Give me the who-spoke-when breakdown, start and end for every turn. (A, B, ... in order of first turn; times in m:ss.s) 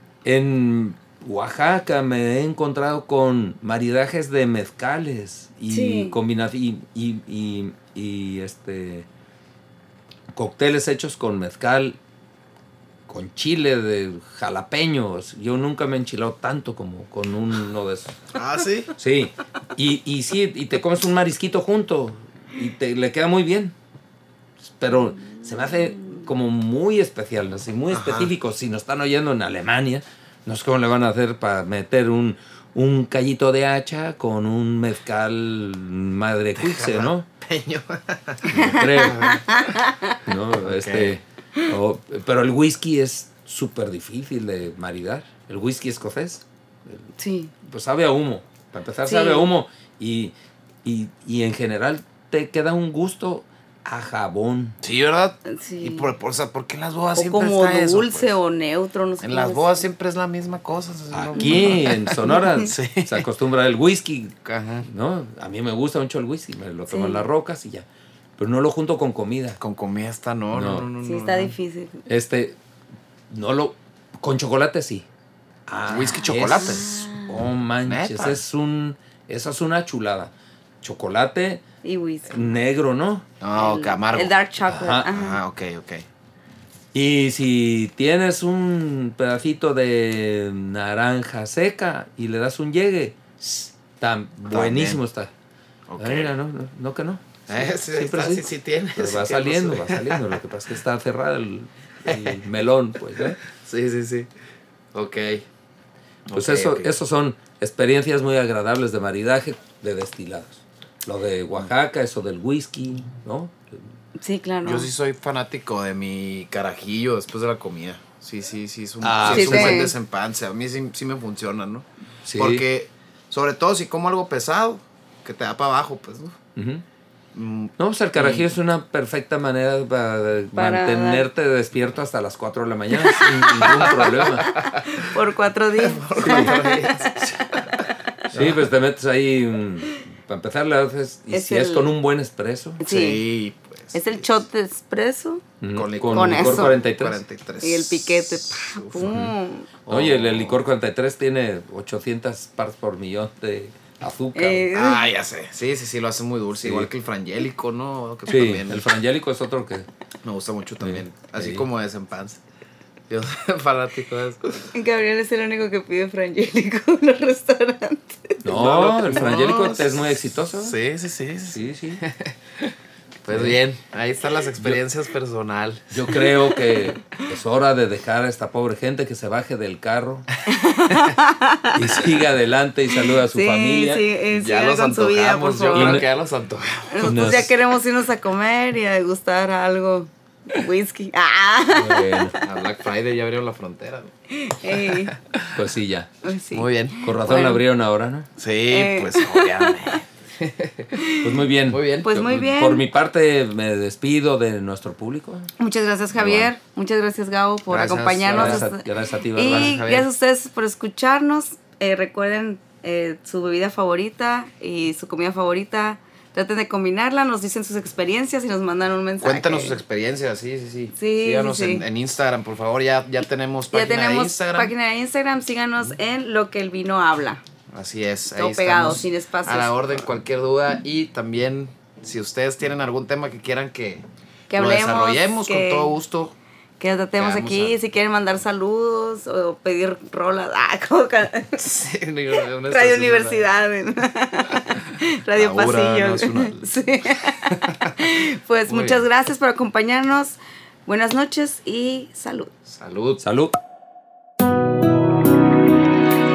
0:00.2-0:09.1 A
0:05.7-0:06.2 B
0:10.3-0:12.0 A
0:13.1-0:18.2 A
0:18.3-0:18.9 C
0:19.0-0:23.7 A
0:24.6-0:37.3 A
0:27.9-0:28.3 C
0:36.6-0:39.8 C
0:38.5-0:39.4 A
0:38.5-0:40.2 B
0:40.2-0:47.1 A
0:40.6-0:41.2 C
0:47.2-0:47.5 B
0:47.6-0:54.8 A
0:49.0-0:49.5 B
0:54.8-0:58.4 C
0:55.4-0:56.1 B
0:57.1-0:59.8 B
0:59.2-1:03.3 C
1:01.1-1:07.8 A
1:01.4-1:02.7 B
1:04.4-1:04.9 C
1:06.9-1:07.2 B
1:08.4-1:09.6 A
1:09.6-1:11.5 C
1:10.5-1:10.9 A
1:11.0-1:12.0 B
1:12.1-1:12.6 A
1:13.3-1:15.0 A
1:15.7-1:21.6 A
1:15.9-1:17.1 C
1:16.5-1:17.4 B
1:17.8-1:18.4 C
1:21.8-1:22.5 B
1:22.3-1:23.3 A
1:23.4-1:24.3 C
1:23.5-1:25.4 B
1:24.7-1:25.1 A
1:25.1-1:26.0 C
1:26.9-1:33.2 A
1:34.0-1:35.3 A
1:34.5-1:35.0 C
1:35.9-1:36.3 C
1:36.0-1:43.4 A
1:37.5-1:40.4 C
1:42.0-1:42.4 C
1:43.2-1:44.3 C
1:44.9-1:45.4 C
1:46.3-1:46.9 C
1:46.3-1:53.8 A
1:54.2-1:54.9 B
1:54.6-2:06.4 C
1:59.0-1:59.9 A
1:59.3-1:59.9 B
2:02.2-2:02.6 A
2:06.6-2:06.8 A
2:07.3-2:08.5 C
2:07.8-2:14.5 A
2:10.5-2:11.3 B
2:13.1-2:17.2 B
2:13.4-2:15.1 C
2:15.8-2:18.6 C
2:18.3-2:22.8 A
2:21.3-2:21.9 B
2:22.8-2:23.2 B
2:22.8-2:24.2 C
2:23.9-2:25.4 B
2:25.6-2:27.2 A
2:25.7-2:29.2 C
2:26.1-2:26.8 B
2:27.6-2:29.7 B
2:29.0-2:29.3 A
2:29.8-2:30.6 C
2:29.9-2:34.7 A
2:34.3-2:35.0 B
2:34.7-2:38.8 C
2:36.6-2:36.9 A
2:38.3-2:39.9 A
2:40.2-2:42.4 C
2:40.8-2:41.7 A
2:43.1-2:44.6 C
2:44.7-2:48.5 B
2:48.4-2:50.8 A
2:48.5-2:52.7 C
2:51.4-2:52.0 A
2:53.2-2:56.5 C
2:53.3-2:53.6 A
2:55.9-3:00.3 A
3:00.5-3:02.0 B
3:01.7-3:04.0 A
3:02.9-3:06.0 B
3:04.3-3:07.4 C
3:05.7-3:06.0 A
3:06.9-3:12.2 B
3:07.0-3:07.5 A
3:11.7-3:12.4 A
3:12.4-3:14.1 C
3:14.3-3:15.1 B
3:14.7-3:15.6 C
3:15.5-3:16.1 A
3:16.2-3:17.6 B
3:16.5-3:17.0 C
3:17.0-3:18.3 A
3:18.4-3:21.0 C
3:18.7-3:19.7 B
3:20.9-3:21.3 B
3:21.2-3:25.5 A
3:21.7-3:22.1 C
3:22.0-3:22.8 B
3:25.6-3:39.8 B
3:26.1-3:26.5 A
3:27.7-3:28.7 C
3:28.3-3:29.8 A
3:29.4-3:30.1 C
3:39.2-3:44.7 C
3:41.0-3:41.8 B
3:43.7-3:47.4 B
3:47.7-3:56.3 C
3:48.3-3:49.8 B
3:54.5-3:55.9 B
3:56.8-4:01.7 B
3:57.2-3:57.8 C
4:01.6-4:03.5 C
4:02.6-4:12.5 B
4:05.3-4:08.1 C
4:08.7-4:09.0 C
4:12.6-4:13.2 C
4:13.2-4:13.6 A